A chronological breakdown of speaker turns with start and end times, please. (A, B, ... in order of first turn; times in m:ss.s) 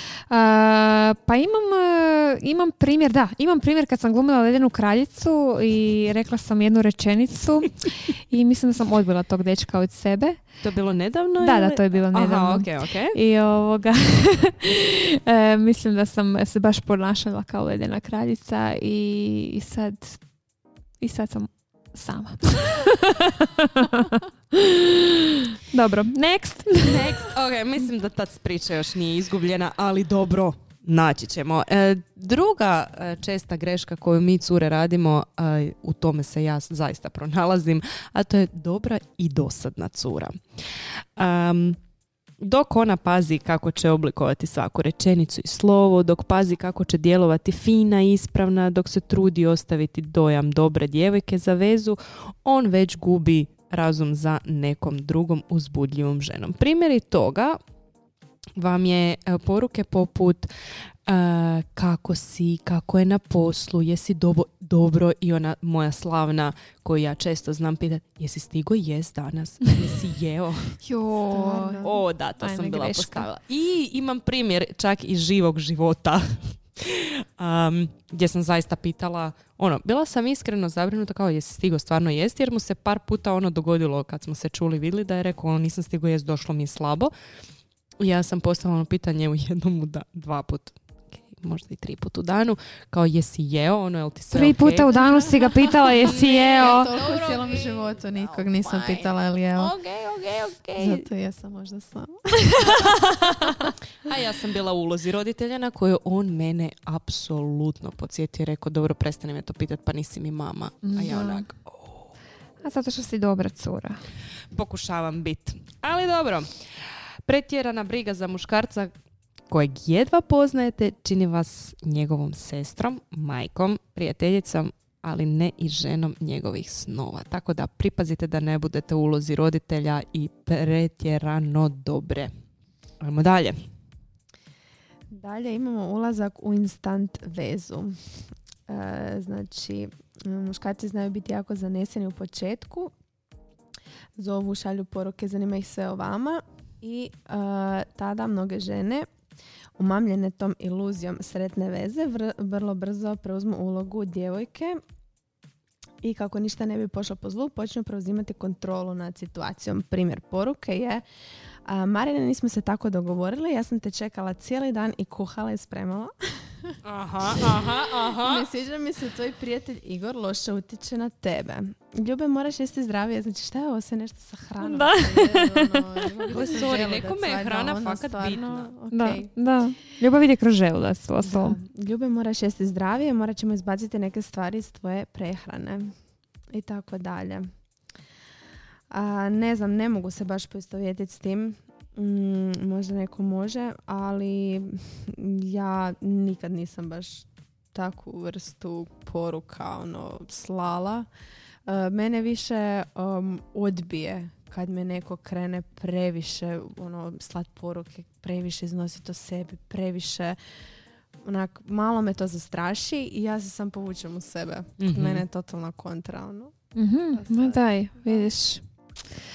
0:00.2-0:10.6 A
0:10.6-0:13.2 B
0:11.4-0:20.3 A
0:21.0-0:25.0 A
0:25.7-0:27.1 A
0:26.8-0:41.8 B
0:42.4-0:57.6 B
0:58.6-1:00.5 B
1:01.0-1:10.8 B
1:10.8-1:13.3 A
1:11.3-1:12.0 C
1:11.8-1:27.1 B
1:28.0-1:35.0 B
1:34.3-1:36.9 A
1:36.0-1:41.1 B
1:36.1-1:39.7 C
1:40.8-1:43.0 C
1:43.1-1:43.5 A
1:44.0-1:52.1 B
1:50.8-1:51.5 A
1:52.6-1:54.0 A
1:54.5-1:56.7 B
1:57.2-1:58.9 B
1:59.5-2:12.3 B
2:13.0-2:13.6 B
2:15.1-2:22.9 C
2:24.2-2:29.1 C
2:29.8-2:34.8 C
2:36.0-2:41.0 C
2:41.6-2:46.8 C
2:46.8-2:48.4 B
2:48.2-2:59.8 C
2:54.6-2:56.3 A
2:56.3-2:58.7 B
2:58.9-3:01.6 A
3:01.2-3:06.0 C
3:06.5-3:07.5 C
3:08.9-3:21.1 C
3:21.7-3:30.4 C
3:31.2-3:38.3 C
3:34.8-3:35.2 B
3:36.8-3:38.6 A